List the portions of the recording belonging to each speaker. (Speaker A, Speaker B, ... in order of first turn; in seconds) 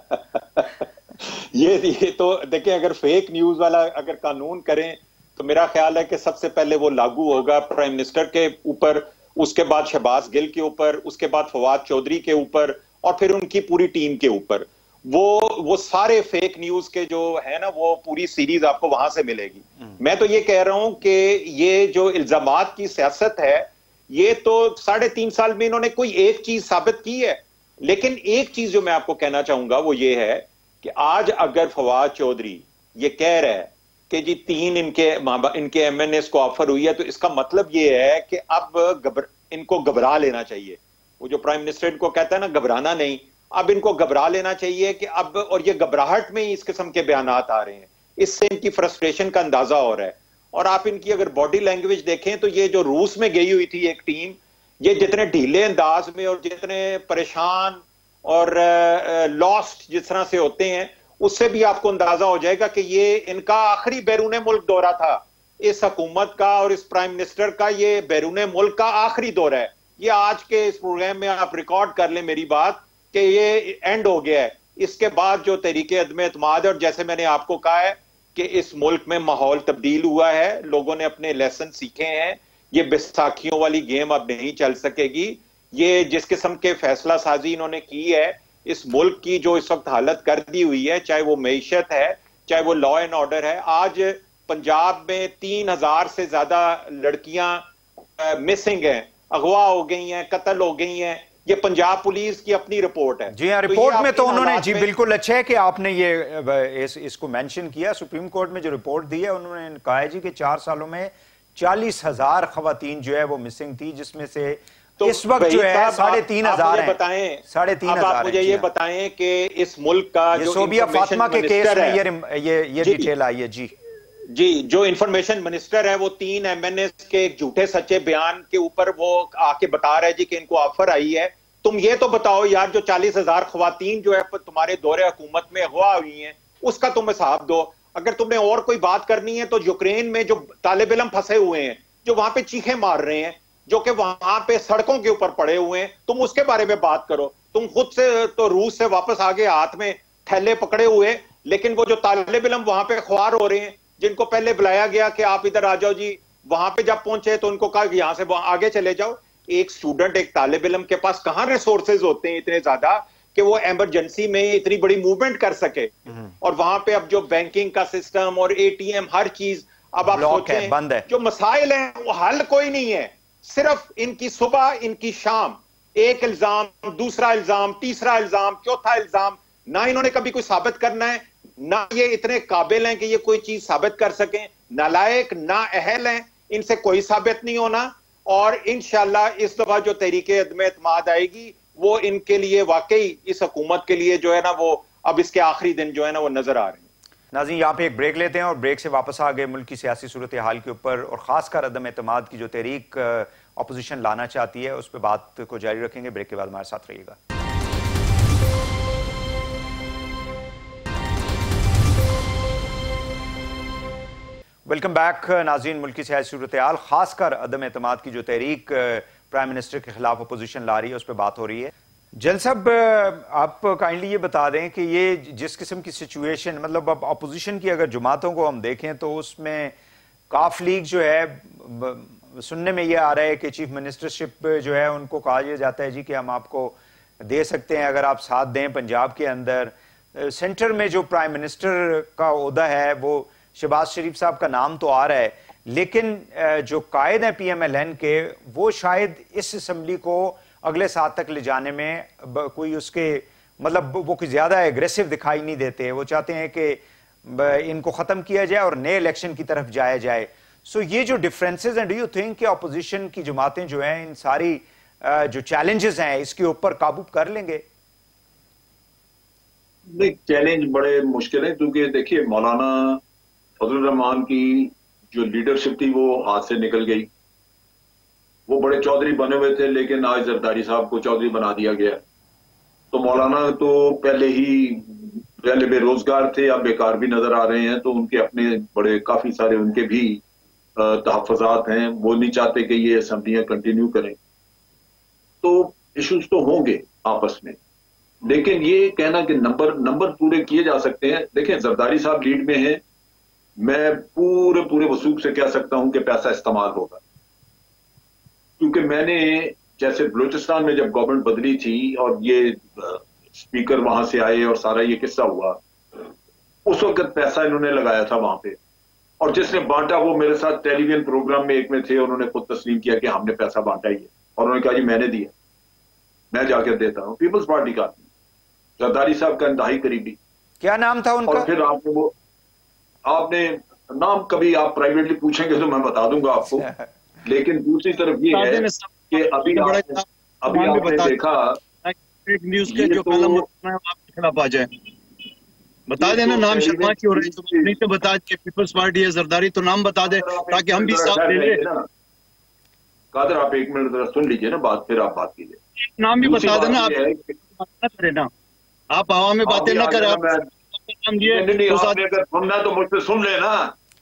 Speaker A: 0.1-97.7, 98.2-104.9, 115.0-122.0, 122.8-123.1, 124.3-196.8
Speaker B: 103.3-118.7, 120.3-123.7, 170.1-171.1, 197.3-207.2, 214.7-229.7, 230.3-267.6, 330.6-331.5, 336.5-336.9
Speaker C: 269.9-273.0, 273.6-277.1, 278.5-282.0, 282.9-290.2, 290.8-294.2, 295.4-297.6, 298.2-302.8, 303.6-307.0, 308.6-316.1, 316.7-318.6, 319.2-325.3, 326.3-328.1, 328.8-330.2, 331.3-332.1, 333.1-336.7, 337.2-341.6, 342.7-343.4, 346.0-347.7, 350.1-351.9, 353.1-355.6, 356.2-357.3, 359.5-360.5, 361.2-363.7
Speaker D: 338.3-341.2, 341.8-344.7, 345.9-351.6, 355.8-357.0, 357.6-358.3, 358.9-362.0